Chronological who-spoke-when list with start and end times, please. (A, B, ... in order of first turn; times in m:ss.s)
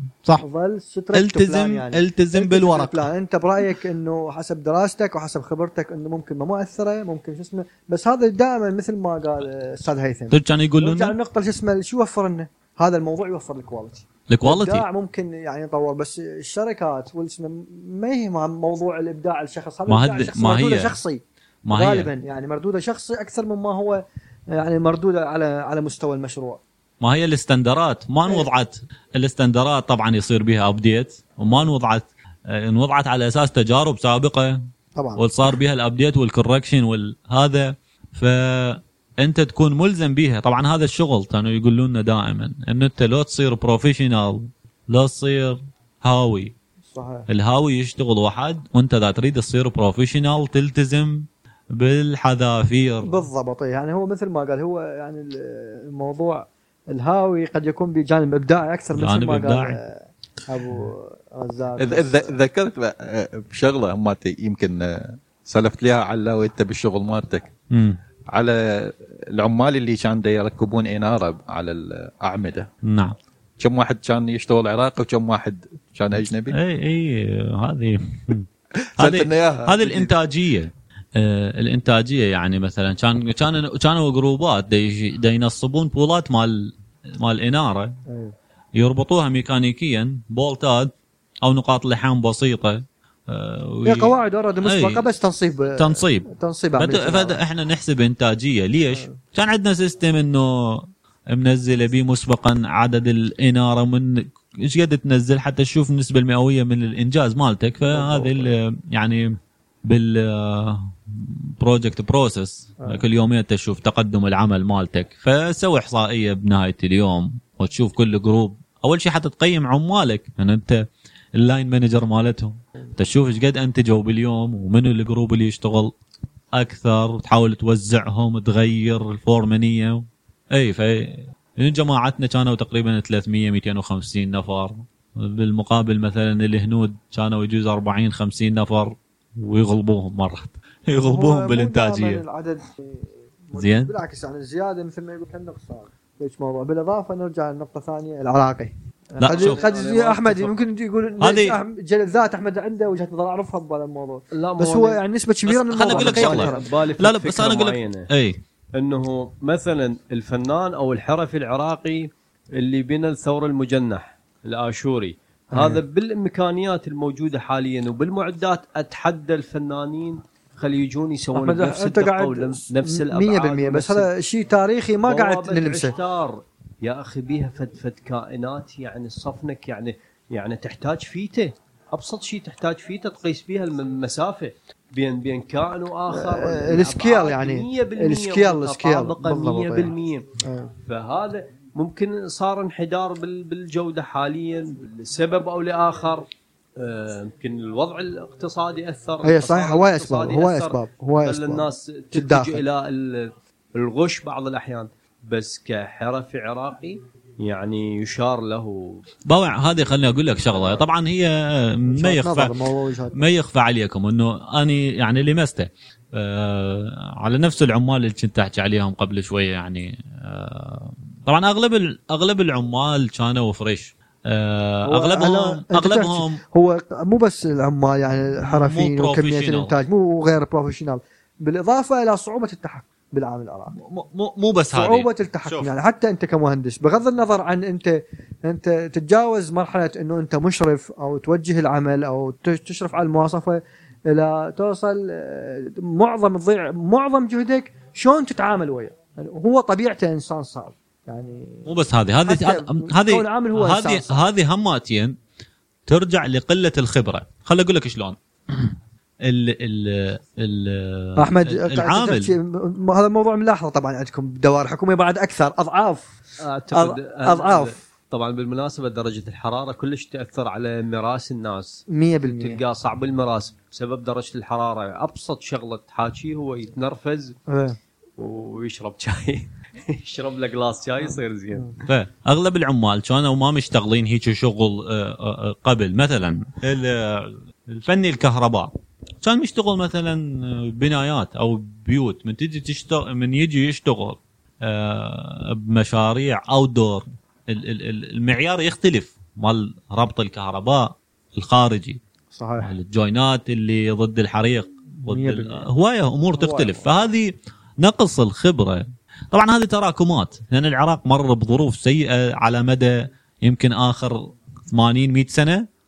0:00.4-0:26.6 A
0:01.1-0:03.1 B
0:10.3-0:11.1 B
0:14.3-0:14.8 B
0:19.9-0:21.0 B
0:21.6-0:22.1 B
0:27.0-0:34.6 B
0:34.9-0:35.2 A
0:35.2-0:46.5 B
0:46.9-0:47.3 A
0:47.3-0:53.2 B
0:53.0-1:02.3 A
0:58.9-0:59.8 B
1:01.8-1:07.5 C
1:07.7-1:08.0 B
1:08.3-1:12.7 C
1:12.8-1:13.1 B
1:13.6-1:16.5 C
1:16.5-1:18.5 B
1:18.8-1:20.1 C
1:19.0-1:27.9 B
1:28.1-1:28.3 A
1:28.8-1:35.0 B
1:33.8-1:37.4 A
1:35.7-1:49.4 B
1:47.9-1:48.5 A
1:49.9-2:00.8 B
2:01.4-2:05.9 B
2:06.6-2:22.2 B
2:21.0-2:36.7 A
2:23.5-2:23.9 B
2:29.2-2:29.6 B
2:29.3-2:30.6 D
2:31.2-2:31.6 B
2:34.3-2:35.0 D
2:35.4-2:38.4 B
2:35.8-2:38.1 D
2:38.7-2:54.1 D
2:45.5-2:45.8 A
2:51.3-2:55.9 A
2:55.0-3:10.3 D
3:06.1-3:10.7 A
3:10.8-3:29.0 D
3:19.2-3:22.6 A
3:29.3-3:32.5 B
3:30.5-3:30.8 D
3:31.9-3:33.2 A
3:33.1-3:46.4 B
3:44.8-3:53.7 A
3:48.4-3:49.7 B
3:53.8-3:55.7 B
3:54.7-4:11.7 A
4:11.6-4:15.2 B
4:12.2-4:14.2 A
4:15.9-4:22.3 B
4:21.2-4:26.2 A
4:26.4-4:37.4 D
4:26.7-4:27.7 A
4:31.9-4:32.6 A
4:37.5-4:37.8 A
4:38.2-4:41.8 D
4:41.1-4:41.7 A
4:41.9-5:02.0 B
5:02.3-5:02.7 A
5:02.6-5:15.7 B
5:05.0-5:05.6 A
5:06.4-5:06.9 A